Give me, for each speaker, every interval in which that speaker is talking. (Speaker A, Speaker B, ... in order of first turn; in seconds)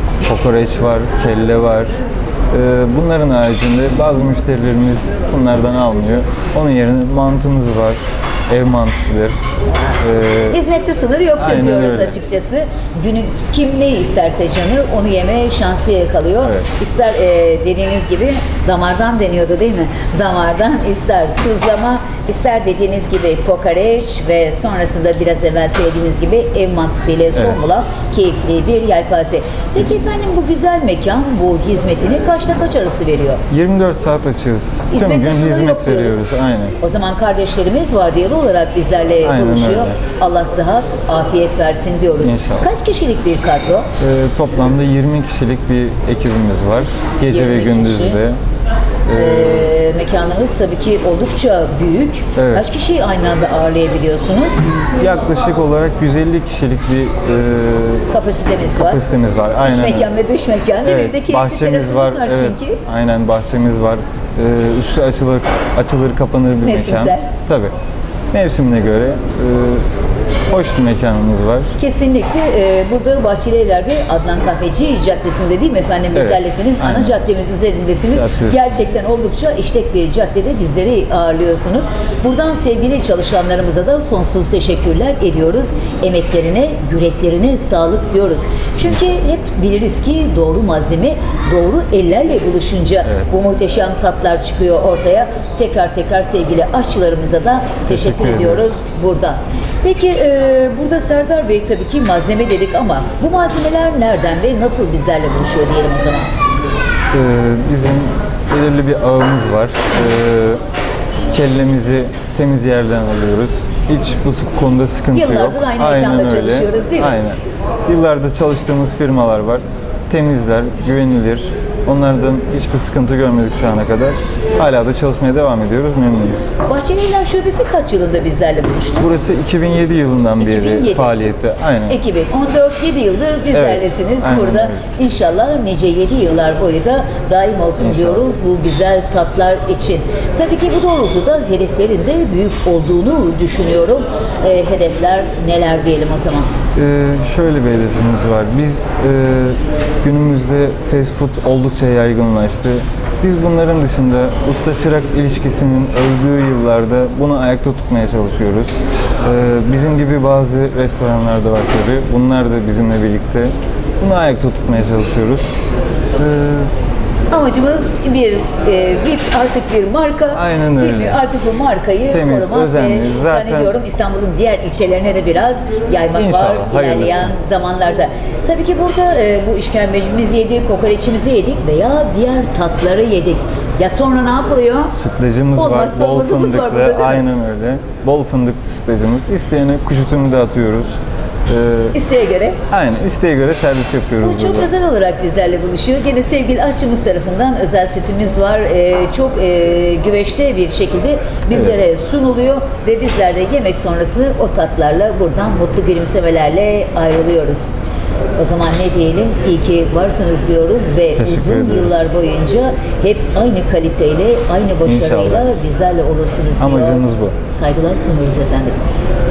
Speaker A: 0.2-1.9, 2.5-9.4, 10.0-10.6, 11.4-12.1, 16.4-16.7, 33.5-36.8, 39.2-40.0, 42.2-42.7, 44.0-48.4, 49.1-49.7, 52.4-52.8, 55.0-58.1, 58.8-60.1, 60.8-67.7, 68.3-69.9, 70.5-71.7, 76.1-77.2, 78.1-78.6, 93.0-93.5, 97.9-98.8, 107.1-110.6, 111.3-126.5, 129.0-132.0, 133.5-134.8, 137.8-138.2, 146.7-165.5, 166.2-166.7, 170.3-171.2, 172.1-173.7, 176.1-177.3, 184.9-191.9, 192.7-194.7, 201.5-201.8, 211.2-212.1, 214.8-215.5, 216.6-217.3
Speaker B: 10.5-33.4, 34.9-36.2, 36.8-43.9, 47.3-48.2, 49.1-54.6, 58.1-59.0, 59.6-62.8, 66.6-67.3, 71.8-106.3, 115.1-117.2, 126.6-129.1, 130.4-131.2, 131.9-146.5, 167.3-184.9, 185.6-187.2, 191.9-192.6, 194.2-207.7, 208.4-218.8